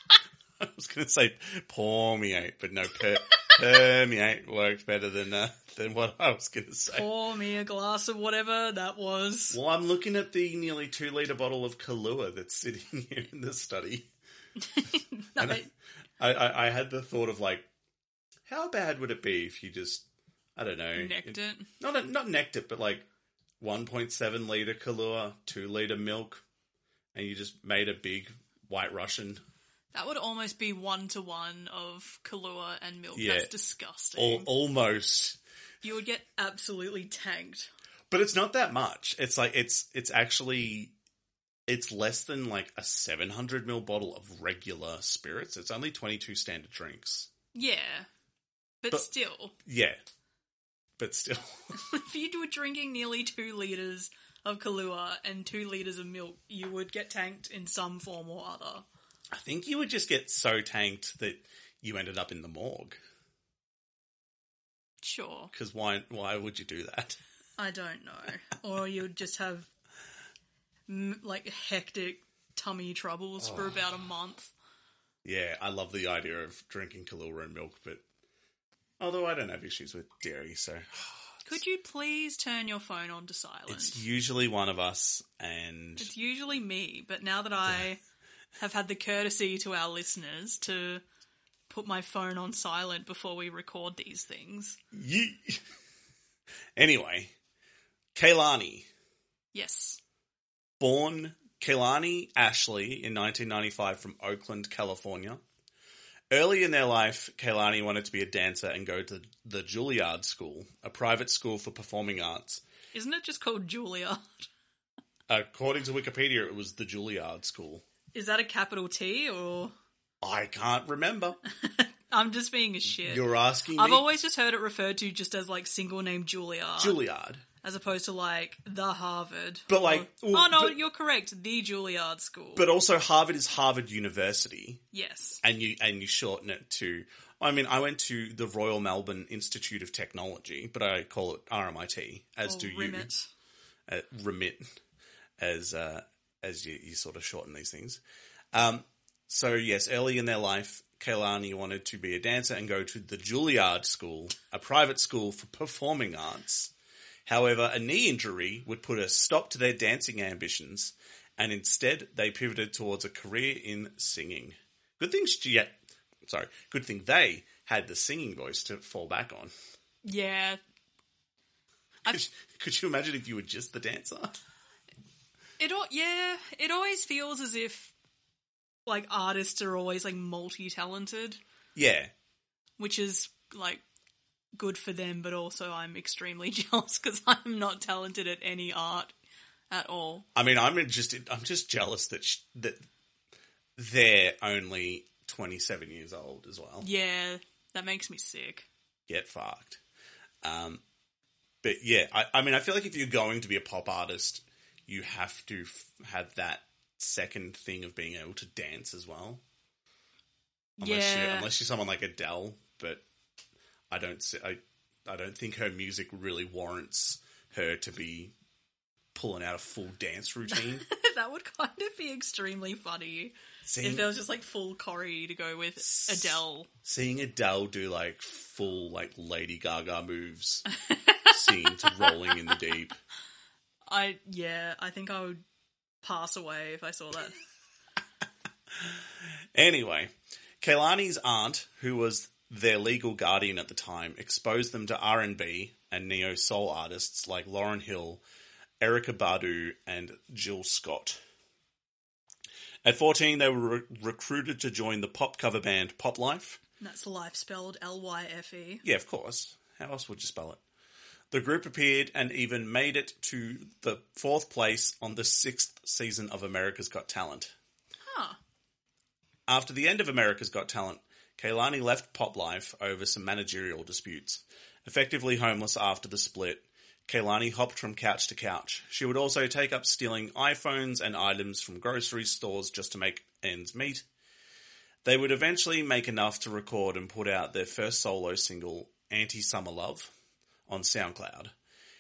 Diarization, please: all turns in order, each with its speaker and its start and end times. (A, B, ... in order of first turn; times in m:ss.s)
0:00.6-0:07.1 A
0:06.9-0:09.6 B
0:09.5-0:14.1 A
0:14.6-0:15.7 B
0:15.4-0:15.6 A
0:16.2-0:17.7 A
0:18.5-0:20.0 A
0:20.6-0:23.1 A
0:21.0-0:21.7 B
0:23.6-0:26.4 A
0:27.1-0:29.4 A
0:29.9-0:34.5 B
0:33.1-0:33.5 A
0:34.2-0:35.4 A
0:35.8-0:37.7 B
0:38.1-0:40.9 A
0:41.7-0:47.3 A
0:47.5-0:48.1 B
0:48.8-0:49.6 B
0:49.6-0:50.0 A
0:51.0-0:51.8 A
0:51.8-0:58.8 B
0:59.3-1:03.0 A
1:05.0-1:05.5 B
1:05.5-1:07.2 A
1:07.6-1:09.7 B
1:10.9-1:14.5 B
1:13.4-1:13.8 A
1:15.2-1:18.0 A
1:19.0-1:21.6 A
1:21.4-1:24.0 B
1:23.7-1:26.1 A
1:26.0-1:28.0 B
1:28.6-1:31.0 B
1:31.7-1:34.8 B
1:34.9-1:35.6 A
1:36.8-1:37.3 A
1:38.2-1:38.9 A
1:39.5-1:40.0 B
1:40.8-1:45.4 A
1:46.3-1:52.6 A
1:52.9-1:54.5 B
1:55.3-1:57.8 A
1:58.1-1:59.7 B
2:00.2-2:01.4 A
2:01.5-2:07.0 B
2:03.0-2:04.1 A
2:06.8-2:07.4 A
2:07.6-2:12.7 B
2:09.7-2:10.8 A
2:12.6-2:14.8 A
2:14.9-2:15.4 B
2:15.4-2:23.1 A
2:22.4-2:23.3 B
2:23.9-2:24.7 A
2:25.4-2:28.0 A
2:28.5-2:36.7 A
2:37.3-2:49.5 A
2:50.0-2:50.6 B
2:52.1-2:54.4 A
2:55.6-2:57.9 B
2:58.9-3:01.4 B
3:01.8-3:02.1 A
3:02.8-3:03.8 B
3:04.6-3:09.1 B
3:09.7-3:10.3 B
3:10.4-3:12.8 A
3:13.8-3:16.9 A
3:16.8-3:18.7 B
3:19.1-3:19.8 A
3:20.4-3:20.8 A
3:21.6-3:29.4 A
3:30.8-3:33.0 A
3:30.8-3:31.5 B
3:33.9-3:38.3 A
3:39.1-3:40.9 A
3:40.5-3:46.7 B
3:43.6-3:44.1 A
3:45.8-3:50.7 A
3:50.7-3:52.1 B
3:51.3-3:53.0 A
3:53.9-3:55.4 B
3:56.0-3:57.4 B
3:58.8-4:08.2 A
4:08.8-4:11.2 A
4:12.8-4:16.6 A
4:16.8-4:18.8 B
4:18.8-4:20.6 A
4:21.3-4:27.5 A
4:28.0-4:28.4 B
4:29.5-4:44.0 A
4:45.0-4:50.1 A
4:50.7-4:51.5 A